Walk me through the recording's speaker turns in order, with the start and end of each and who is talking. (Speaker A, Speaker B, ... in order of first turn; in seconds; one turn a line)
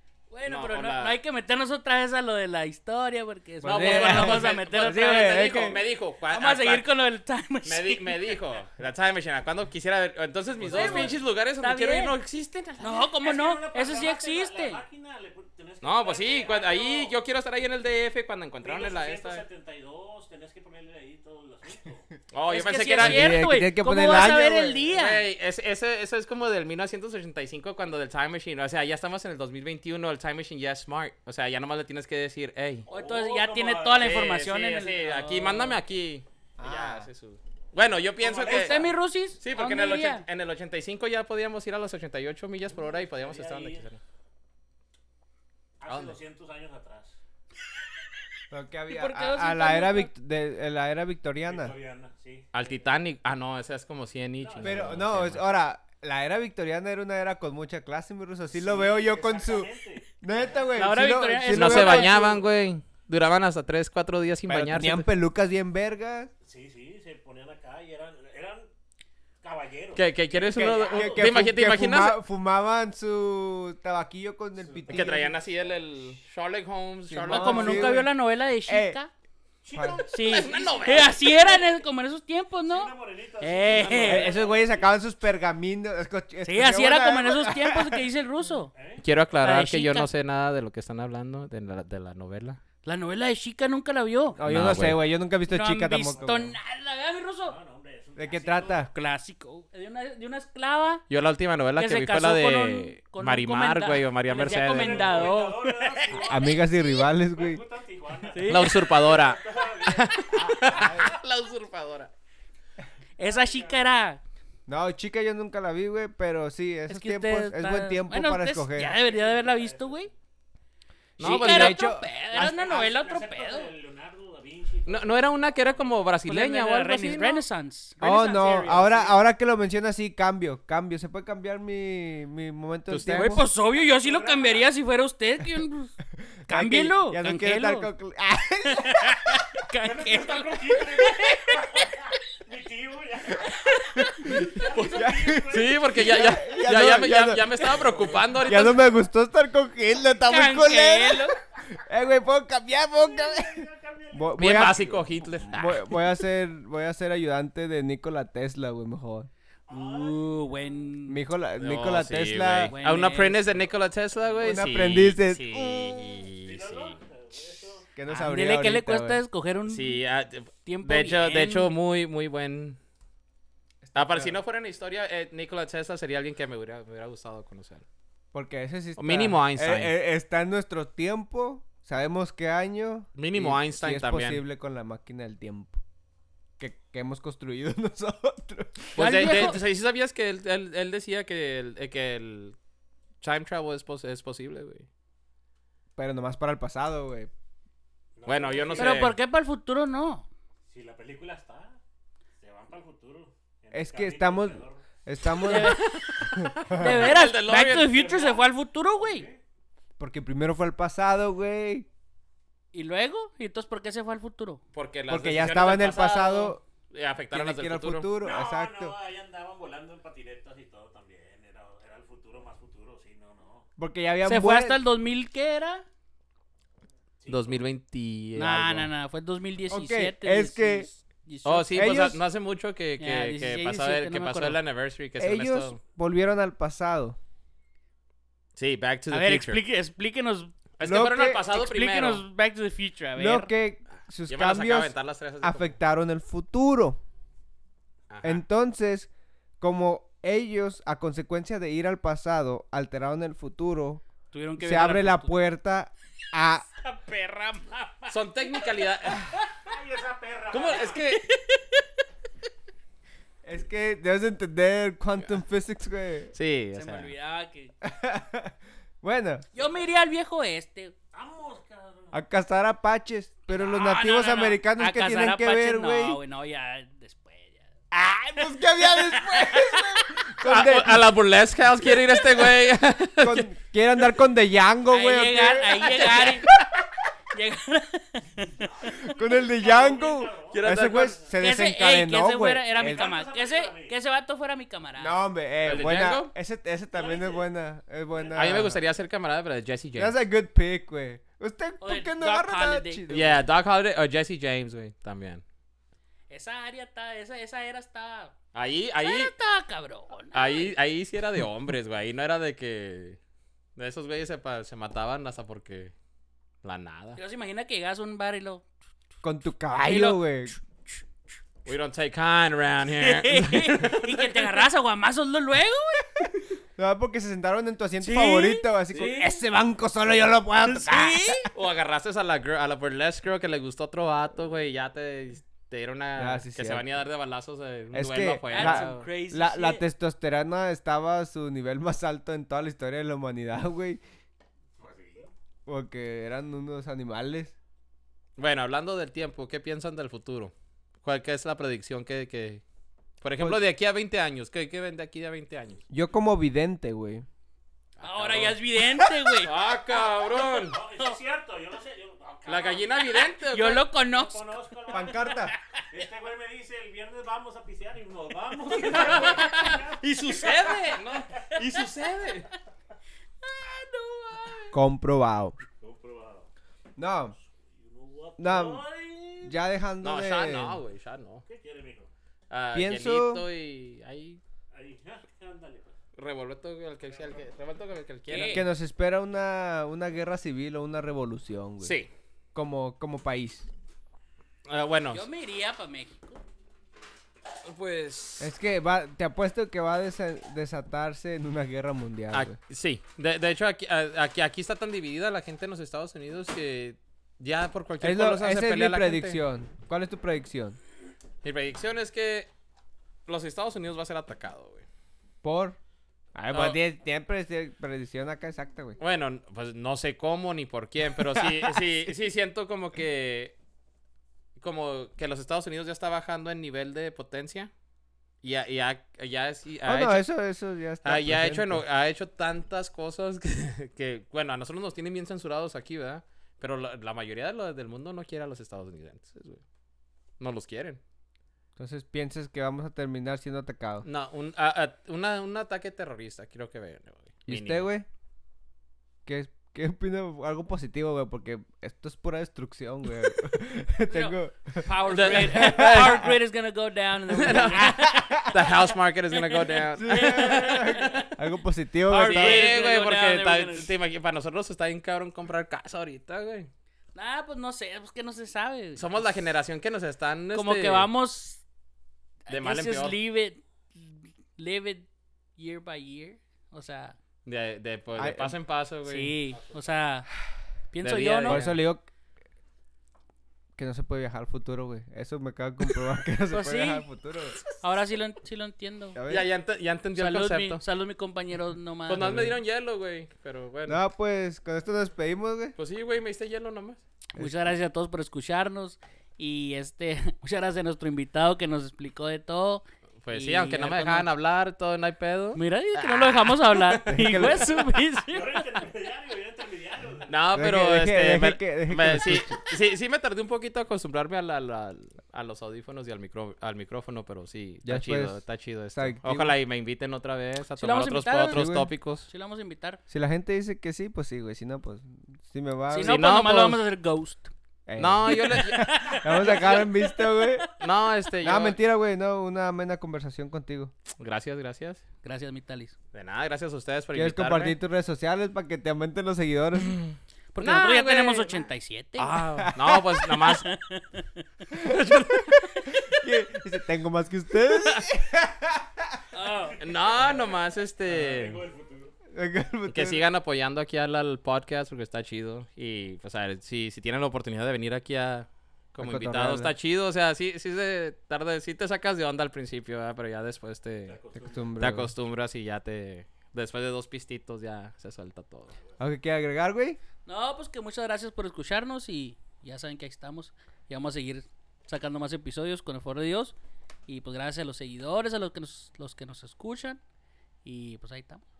Speaker A: 0.3-5.4
Speaker B: 0.4-1.2
Speaker C: 3.6-5.8
Speaker B: 3.6-6.8
Speaker A: 6.3-8.2
Speaker B: 7.6-13.1
Speaker D: 10.5-11.2
Speaker A: 10.7-12.2
Speaker A: 12.8-14.8
Speaker D: 13.2-17.2
Speaker B: 15.8-19.4
Speaker D: 18.6-22.1
Speaker B: 22.3-23.4
Speaker A: 22.5-25.2
Speaker C: 23.0-24.8
Speaker B: 24.9-32.9
Speaker D: 32.9-34.2
Speaker A: 32.9-35.8
Speaker B: 34.0-44.0
Speaker C: 36.6-37.1
Speaker D: 38.2-38.9
Speaker A: 38.4-40.2
Speaker D: 42.7-43.9
Speaker D: 45.8-47.2
Speaker B: 45.9-46.2
Speaker C: 48.5-51.8
Speaker A: 48.9-50.1
Speaker D: 51.4-52.9
Speaker B: 52.5-55.4
Speaker D: 54.4-55.0
Speaker C: 54.6-62.2
Speaker D: 58.5-60.7
Speaker A: 60.7-62.4
Speaker B: 61.5-65.1
Speaker C: 64.5-66.3
Speaker D: 66.4-68.7
Speaker D: 69.4-71.4
Speaker B: 69.9-72.2
Speaker C: 70.9-75.3
Speaker D: 74.6-75.4
Speaker B: 74.9-78.0
Speaker C: 77.1-78.1
Speaker A: 77.2-79.1
Speaker C: 78.7-79.0
Speaker D: 79.6-81.7
Speaker C: 79.7-80.0
Speaker A: 80.1-84.3
Speaker B: 80.2-81.3
Speaker D: 82.6-84.9
Speaker B: 83.7-84.3
Speaker C: 84.1-88.1
Speaker A: 86.4-88.7
Speaker D: 88.7-89.0
Speaker B: 89.0-92.6
Speaker A: 89.4-90.1
Speaker A: 92.8-94.4
Speaker C: 94.4-96.5
Speaker B: 94.4-95.0
Speaker A: 95.5-97.6
Speaker D: 96.1-96.4
Speaker D: 97.4-98.9
Speaker C: 98.2-98.9
Speaker A: 98.9-101.0
Speaker B: 101.1-105.3
Speaker A: 101.8-106.6
Speaker D: 104.3-111.2
Speaker C: 106.2-107.6
Speaker A: 108.3-108.9
Speaker B: 108.5-112.1
Speaker C: 110.7-111.1
Speaker A: 113.2-114.2
Speaker D: 113.2-113.8
Speaker C: 114.7-118.9
Speaker A: 116.9-120.1
Speaker D: 118.8-120.1
Speaker B: 121.2-121.8
Speaker A: 121.2-123.7
Speaker C: 121.2-122.9
Speaker D: 122.3-126.1
Speaker B: 124.8-127.4
Speaker A: 126.3-129.2
Speaker C: 128.0-133.4
Speaker B: 132.9-133.3
Speaker A: 133.1-136.0
Speaker D: 133.6-134.7
Speaker A: 136.5-137.9
Speaker C: 136.5-139.2
Speaker A: 138.7-142.1
Speaker D: 139.8-146.5
Speaker A: 143.4-144.3
Speaker C: 144.0-155.0
Speaker B: 145.5-148.9
Speaker D: 147.6-148.4
Speaker A: 150.2-151.3
Speaker D: 152.9-155.0
Speaker B: 154.4-155.8
Speaker C: 155.5-159.3
Speaker A: 155.5-156.1
Speaker D: 159.7-160.7
Speaker A: 159.7-161.2
Speaker C: 161.1-162.7
Speaker B: 161.6-166.9
Speaker A: 162.7-163.7
Speaker D: 164.2-164.6
Speaker C: 164.4-166.2
Speaker D: 166.4-167.9
Speaker C: 167.9-169.2
Speaker A: 168.1-170.0
Speaker B: 169.7-172.8
Speaker A: 170.6-171.7
Speaker C: 173.8-174.4
Speaker B: 173.9-177.8
Speaker C: 178.3-185.8
Speaker B: 179.0-179.9
Speaker B: 183.1-184.4
Speaker C: 186.6-189.5
Speaker B: 188.9-192.6
Speaker A: 189.0-189.6
Speaker B: 193.2-194.8
Speaker C: 196.0-197.3
Speaker D: 198.1-199.1
Speaker B: 198.2-199.2
Speaker A: 198.7-200.2
Speaker D: 200.7-201.8
Speaker D: 202.4-204.8
Speaker C: 203.7-206.8
Speaker A: 205.3-206.2
Speaker B: 205.5-207.9
Speaker A: 206.7-209.3
Speaker D: 207.7-209.4
Speaker C: 210.0-211.9
Speaker A: 212.7-214.6
Speaker B: 214.7-218.1
Speaker C: 215.1-216.6
Speaker C: 217.3-219.0
Speaker D: 218.2-223.7
Speaker C: 223.8-224.8
Speaker A: 224.2-225.8
Speaker D: 227.2-227.7
Speaker B: 227.3-228.9
Speaker A: 228.3-232.0
Speaker C: 229.7-230.9
Speaker B: 231.4-235.8
Speaker C: 231.7-232.2
Speaker A: 233.0-234.6
Speaker C: 235.2-237.2
Speaker B: 238.6-239.6
Speaker A: 239.1-240.5
Speaker B: 240.8-242.2
Speaker C: 240.8-241.5
Speaker A: 241.5-243.5
Speaker C: 243.2-247.0
Speaker B: 244.3-245.7
Speaker B: 248.1-248.4
Speaker C: 248.2-249.1
Speaker C: 249.6-254.0
Speaker A: 254.3-255.3
Speaker C: 254.6-256.7
Speaker A: 256.7-259.5
Speaker B: 258.1-259.3
Speaker D: 259.6-261.0
Speaker B: 260.5-261.2
Speaker A: 260.9-261.8
Speaker C: 263.4-266.3
Speaker B: 266.3-267.1
Speaker A: 266.7-267.7
Speaker C: 267.8-269.4
Speaker A: 269.5-270.9
Speaker D: 271.1-272.2
Speaker C: 272.1-276.2
Speaker A: 273.5-277.7
Speaker C: 277.9-281.1
Speaker A: 278.5-280.0
Speaker B: 280.4-283.5
Speaker C: 283.2-286.4
Speaker A: 284.9-286.5
Speaker B: 285.9-286.6
Speaker A: 287.3-288.7
Speaker D: 288.6-291.4
Speaker C: 288.9-293.1
Speaker B: 290.5-291.2
Speaker A: 291.4-295.2
Speaker D: 292.7-294.0
Speaker C: 295.0-298.8
Speaker B: 295.6-296.3
Speaker D: 296.9-297.5
Speaker D: 298.1-298.5
Speaker B: 298.3-300.2
Speaker C: 300.0-303.4
Speaker A: 301.8-303.0
Speaker B: 303.1-305.4
Speaker A: 306.3-308.3
Speaker B: 308.5-309.3
Speaker A: 309.0-310.7
Speaker B: 310.3-313.2
Speaker B: 313.8-315.9
Speaker B: 316.6-317.2
Speaker A: 317.1-318.6
Speaker C: 319.2-320.6
Speaker A: 319.9-320.4
Speaker B: 321.6-324.7
Speaker A: 322.9-326.1
Speaker C: 326.8-331.5
Speaker A: 328.0-329.3
Speaker A: 330.6-331.5
Speaker B: 331.5-339.1
Speaker C: 336.2-336.9
Speaker C: 337.9-344.0
Speaker A: 338.5-339.8
Speaker D: 344.8-345.3
Speaker C: 345.6-347.5
Speaker B: 348.4-352.6
Speaker B: 353.2-355.8
Speaker C: 355.9-357.2
Speaker B: 358.0-360.8
Speaker A: 358.0-359.5
Speaker D: 360.4-363.2
Speaker B: 362.5-363.8
Speaker A: 363.5-364.4
Speaker D: 364.0-365.3
Speaker C: 364.9-365.5
Speaker A: 365.3-365.8
Speaker D: 365.9-371.7
Speaker B: 368.8-372.5
Speaker A: 373.5-374.7
Speaker C: 374.7-375.6
Speaker D: 375.8-376.5
Speaker C: 377.0-377.4
Speaker D: 377.5-379.6
Speaker C: 378.4-378.8
Speaker C: 379.4-380.8
Speaker B: 380.0-381.4
Speaker D: 381.4-382.1
Speaker B: 382.5-384.4
Speaker C: 382.7-383.4
Speaker D: 384.7-385.9
Speaker B: 386.1-388.7
Speaker D: 387.1-387.5
Speaker A: 388.3-388.6
Speaker C: 388.5-391.9
Speaker B: 391.8-392.1
Speaker C: 392.5-393.7
Speaker B: 394.7-395.2
Speaker A: 395.1-396.4
Speaker B: 397.6-398.5
Speaker C: 398.4-402.6
Speaker B: 402.3-409.4
Speaker C: 408.0-410.8
Speaker B: 411.4-412.5
Speaker B: 413.3-414.9
Speaker C: 415.4-415.8
Speaker C: 416.3-419.0
Speaker B: 416.5-416.8
Speaker B: 419.0-423.5
Speaker C: 421.2-421.8
Speaker B: 424.6-427.7
Speaker B: 428.4-430.2
Speaker C: 429.8-431.8
Speaker B: 431.0-439.6
Speaker B: 440.4-441.0
Speaker C: 441.8-444.1
Speaker B: 444.0-447.9
Speaker C: 447.5-448.1
Speaker C: 449.2-456.2
Speaker A: 454.1-458.6
Speaker B: 455.0-456.3
Speaker B: 457.3-457.9
Speaker C: 457.5-458.6
Speaker B: 458.5-461.3
Speaker A: 459.3-461.3
Speaker C: 459.9-462.9
Speaker A: 462.1-463.9
Speaker B: 462.2-466.7
Speaker A: 467.1-469.2
Speaker B: 468.9-471.1
Speaker A: 470.5-471.6
Speaker A: 472.4-477.1
Speaker B: 472.5-473.2
Speaker B: 477.4-479.4
Speaker C: 478.1-478.5
Speaker A: 479.0-480.3
Speaker A: 480.9-481.6
Speaker B: 481.0-481.8
Speaker C: 481.5-482.1
Speaker C: 483.8-487.6
Speaker A: 486.5-487.0
Speaker A: 487.8-489.2
Speaker C: 489.1-489.5
Speaker B: 489.3-490.8
Speaker A: 490.1-492.5
Speaker B: 492.1-494.0
Speaker C: 492.2-492.5
Speaker C: 493.9-495.7
Speaker B: 495.8-497.0
Speaker C: 497.3-497.6
Speaker A: 497.4-504.3
Speaker B: 503.2-507.6
Speaker A: 505.5-508.8
Speaker C: 507.1-507.7
Speaker D: 508.3-510.3
Speaker B: 510.3-522.3
Speaker C: 510.6-512.5
Speaker C: 517.8-518.4
Speaker C: 518.9-519.5
Speaker A: 520.8-521.7
Speaker C: 521.5-521.9
Speaker A: 522.3-523.0
Speaker C: 523.1-526.1
Speaker A: 525.9-527.5
Speaker B: 526.0-526.8
Speaker C: 527.9-530.7
Speaker B: 528.0-529.2
Speaker A: 528.2-530.7
Speaker B: 530.8-531.8
Speaker C: 531.4-533.9
Speaker B: 534.2-535.0
Speaker A: 535.2-536.0
Speaker B: 536.1-537.8
Speaker C: 537.1-540.0
Speaker B: 539.9-541.6
Speaker A: 540.5-542.4
Speaker B: 542.2-543.7
Speaker C: 542.3-543.3
Speaker A: 543.4-544.3
Speaker C: 544.7-545.5
Speaker B: 544.9-545.5
Speaker A: 545.9-546.2
Speaker C: 546.0-549.2
Speaker A: 549.3-549.8
Speaker D: 549.3-552.1
Speaker B: 549.8-551.6
Speaker C: 552.3-553.2
Speaker B: 552.9-564.2
Speaker C: 559.0-559.7
Speaker D: 564.1-564.7
Speaker C: 564.3-565.1
Speaker B: 564.8-568.8
Speaker C: 569.0-570.0
Speaker A: 570.2-576.5
Speaker A: 577.1-580.0
Speaker A: 580.6-581.4